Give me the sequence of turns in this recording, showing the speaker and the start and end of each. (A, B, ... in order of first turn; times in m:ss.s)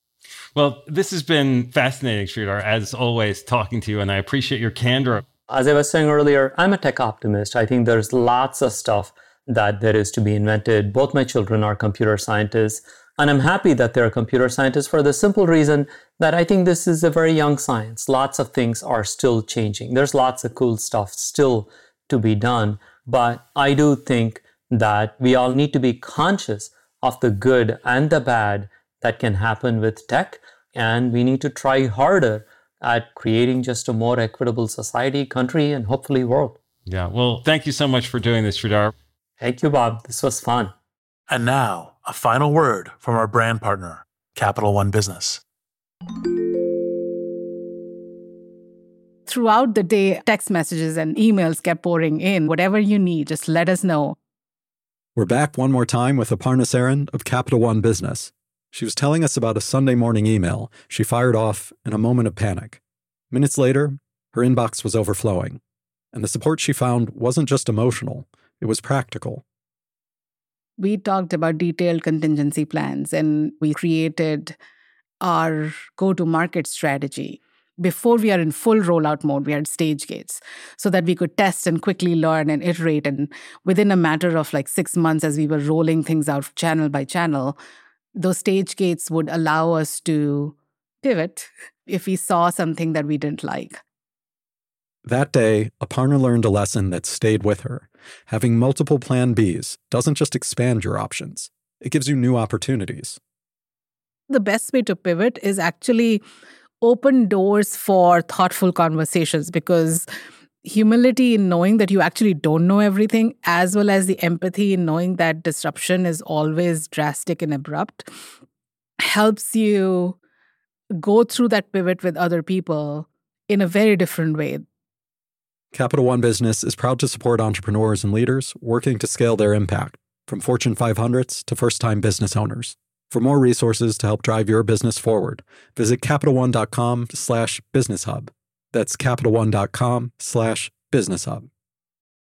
0:00.5-0:05.2 A
0:05.5-0:36.6 B
0:36.9-0:38.9 A
0:39.4-0:40.7 B
0:41.3-0:45.4 C
0:49.3-0:54.2 D
0:55.1-1:02.8 E
1:03.3-1:05.6 E
1:06.1-1:09.4 E
1:10.8-1:14.5 D
1:15.2-1:27.6 D
1:28.2-1:33.8 D
1:35.0-1:43.2 E
1:44.3-1:46.2 D
1:46.8-1:50.1 D
1:50.6-1:58.1 D
1:59.0-2:00.2 D
2:01.0-2:04.6 D
2:05.7-2:21.5 E